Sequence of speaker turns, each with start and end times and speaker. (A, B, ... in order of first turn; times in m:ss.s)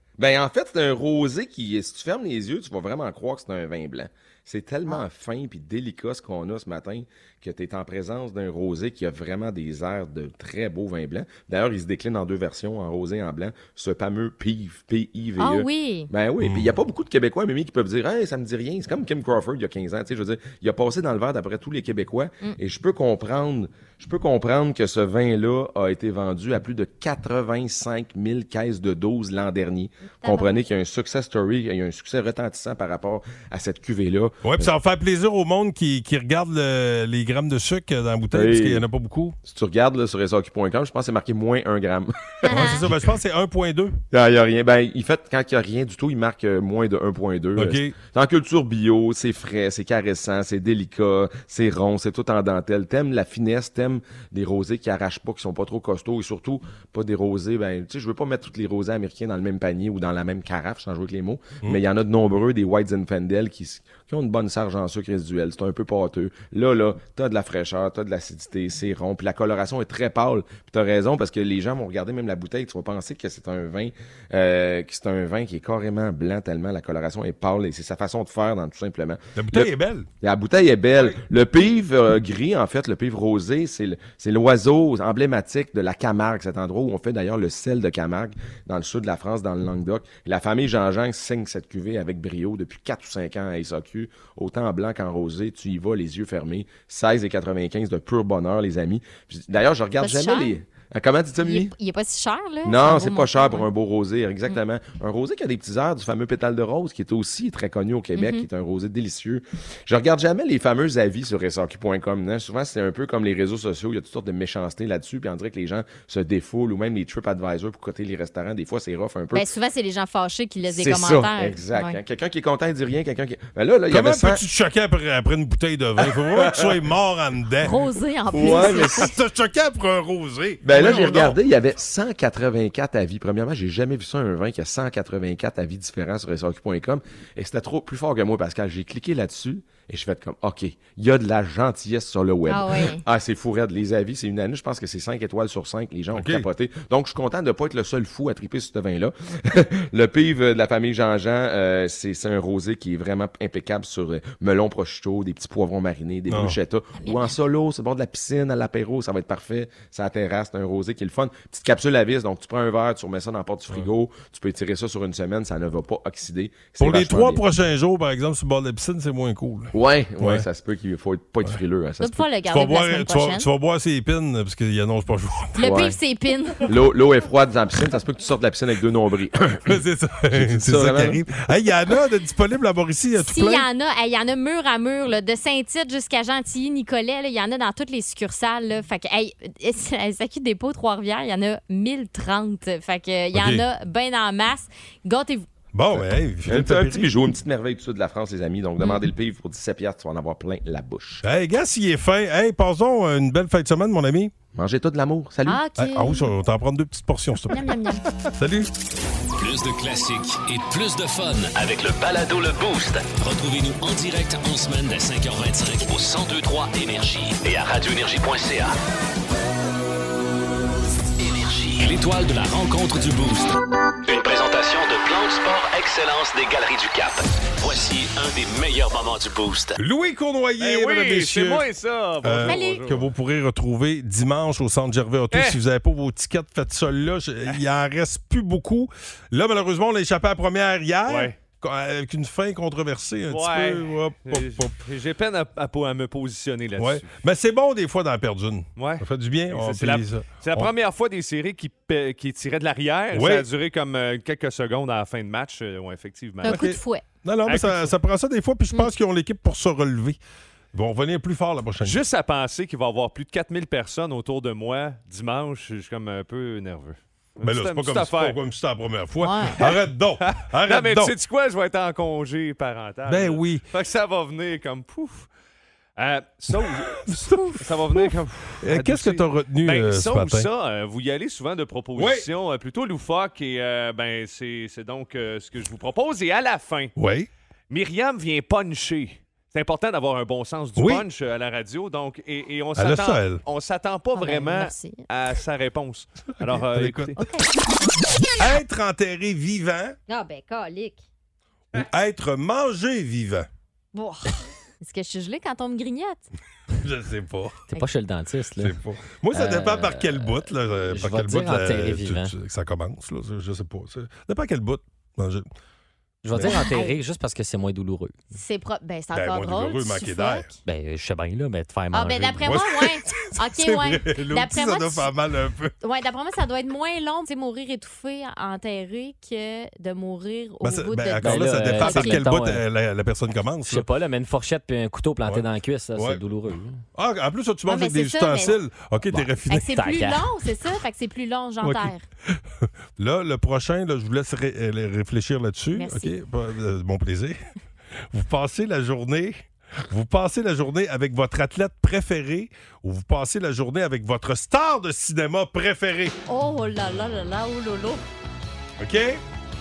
0:00.2-0:34.7 A
0:15.4-0:16.1 B
0:16.4-0:16.8 C
0:30.2-0:30.6 B
0:34.4-0:39.4 C
0:38.3-0:38.8 A
0:39.4-0:42.9 A
0:42.4-0:42.9 B
0:42.5-0:44.0 C
0:44.1-1:41.7 A
0:47.6-0:48.0 C
1:19.4-1:20.1 C
1:40.0-1:40.6 B
1:41.4-1:43.7 B
1:42.6-1:59.5 A
1:48.2-1:48.5 B
1:59.3-2:02.0 B
2:00.7-2:04.4 A
2:03.9-2:07.8 C
2:06.0-2:06.8 A
2:07.6-2:09.1 B
2:08.3-2:09.1 A
2:08.3-2:11.4 C
2:10.6-2:47.4 A
2:22.5-2:23.0 B
2:26.1-2:26.5 C
2:36.3-2:36.6 C
2:37.0-2:37.3 B
2:46.8-2:50.5 C
2:49.7-2:52.2 A
2:52.0-2:53.5 B
2:52.5-2:55.9 C
2:55.6-2:56.7 B
2:55.6-2:56.0 A
2:56.7-2:59.8 A
2:59.7-3:03.7 C
3:00.3-3:01.5 A
3:03.2-3:15.5 B
3:13.3-3:13.6 C
3:15.7-3:17.1 C
3:15.9-3:21.2 A
3:18.8-3:19.1 B
3:21.2-3:24.3 C
3:24.5-3:25.6 A
3:25.4-3:26.3 B
3:25.8-3:28.7 C
3:27.5-3:28.0 B
3:29.4-3:38.8 D
3:41.2-3:49.8 D
3:49.8-3:51.7 C
3:50.6-3:53.1 E
3:52.2-4:04.8 C
3:52.4-3:52.9 B
3:55.3-3:55.6 E
4:01.1-4:01.4 E
4:03.3-4:07.1 E
4:06.8-4:10.7 C
4:08.8-4:16.7 E
4:13.1-4:13.5 C
4:16.4-4:17.0 B
4:16.4-4:20.2 C
4:17.4-4:17.9 E
4:20.7-4:22.0 C
4:21.8-4:28.4 E
4:27.4-4:31.1 C
4:29.2-4:29.6 B
4:29.6-4:35.3 E
4:33.1-4:33.6 C
4:36.0-4:46.9 E
4:36.6-4:40.5 C
4:42.0-4:42.3 C
4:47.0-4:47.3 C
4:47.7-4:57.1 E
4:50.8-4:51.0 C
4:52.8-4:53.4 C
4:54.2-4:55.1 B
4:56.3-4:57.2 C
4:57.2-4:57.5 B
4:58.4-5:00.0 C
5:00.1-5:01.0 B
5:01.7-5:03.5 C
5:03.9-5:06.3 B
5:06.8-5:07.6 C
5:07.7-5:08.8 F
5:08.6-5:15.5 C
5:09.3-5:12.3 F
5:16.2-5:18.2 F
5:16.3-5:16.6 C
5:16.5-5:17.0 B
5:18.3-5:20.5 B
5:19.1-5:20.5 C
5:20.6-5:22.5 F
5:21.9-5:25.1 B
5:22.5-5:25.7 C
5:25.8-5:32.2 B
5:30.6-5:33.9 C
5:31.2-5:32.6 F
5:33.7-5:36.8 F
5:36.0-5:36.2 C
5:36.9-5:39.8 C
5:37.7-5:38.6 B
5:39.1-5:40.3 F
5:39.5-5:42.0 B
5:41.6-5:42.4 C
5:43.0-5:47.4 C
5:45.7-5:46.2 B
5:48.1-5:56.1 C
5:56.3-5:58.0 B
5:58.8-5:59.2 C